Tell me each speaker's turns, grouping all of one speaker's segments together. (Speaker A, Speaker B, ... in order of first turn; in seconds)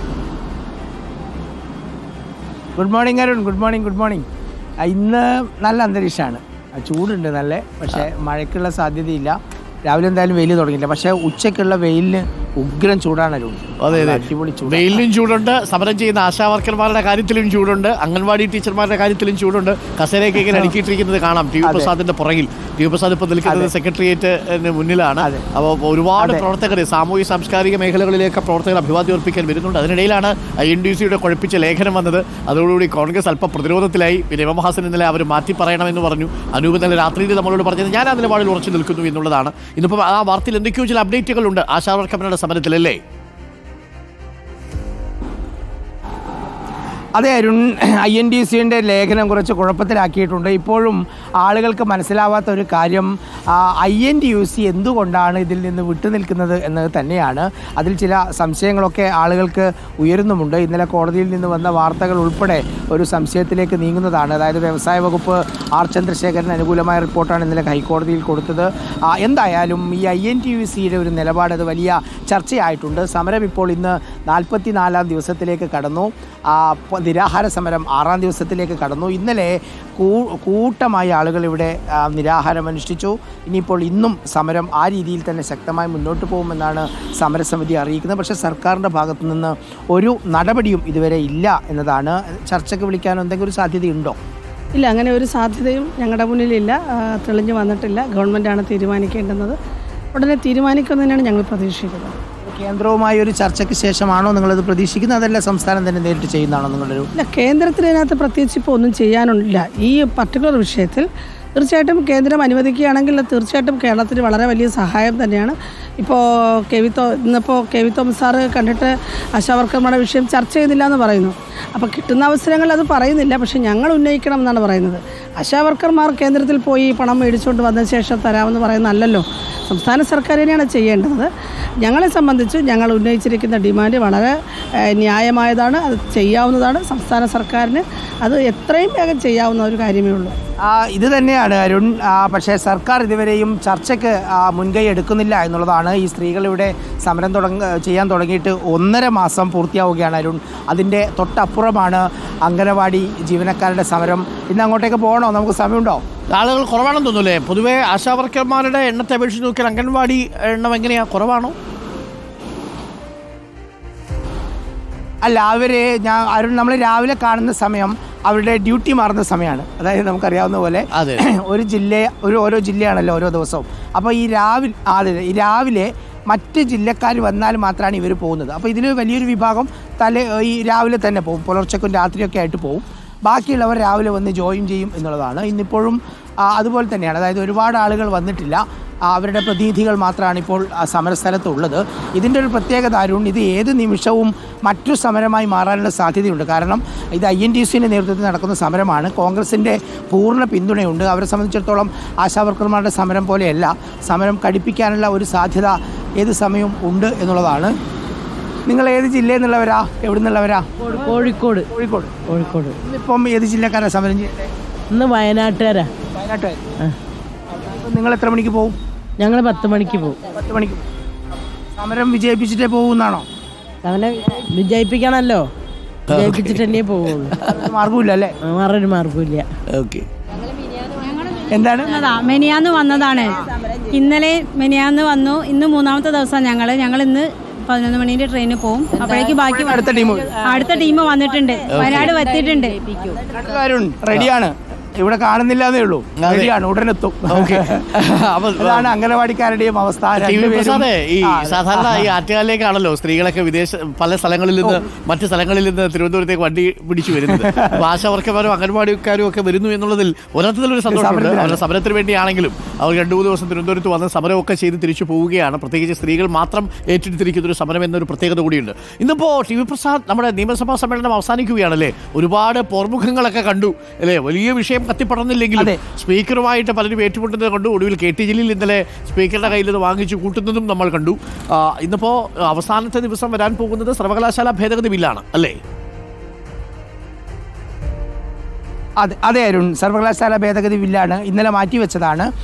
Speaker A: 2.8-4.2, 4.8-15.1, 21.6-21.9, 23.4-23.7, 26.2-26.4, 47.1-94.2, 102.4-107.1, 140.6-156.0, 165.2-207.8, 208.7-210.7, 211.7-212.2, 212.8-214.5, 216.2-216.6, 217.5-218.8, 220.3-220.8, 221.8-223.3, 227.4-228.3, 231.5-232.0, 239.5-240.4, 243.3-247.9, 248.6-252.1, 257.3-257.8, 260.9-261.6, 289.0-292.3
Speaker B: 13.8-43.0, 156.3-161.6, 170.9-171.2, 226.1-226.7, 227.2-227.6, 229.7-230.1, 241.7-242.1, 246.2-246.5, 247.3-248.9, 250.2-285.6
Speaker C: 94.8-99.6, 100.1-102.2, 107.2-131.3, 131.8-134.3, 134.9-140.3
Speaker D: 210.8-211.7, 212.3-212.8, 214.9-215.9, 219.2-220.3, 223.8-225.5, 226.1-227.4, 228.5-229.5
Speaker E: 231.0-239.8, 240.4-243.2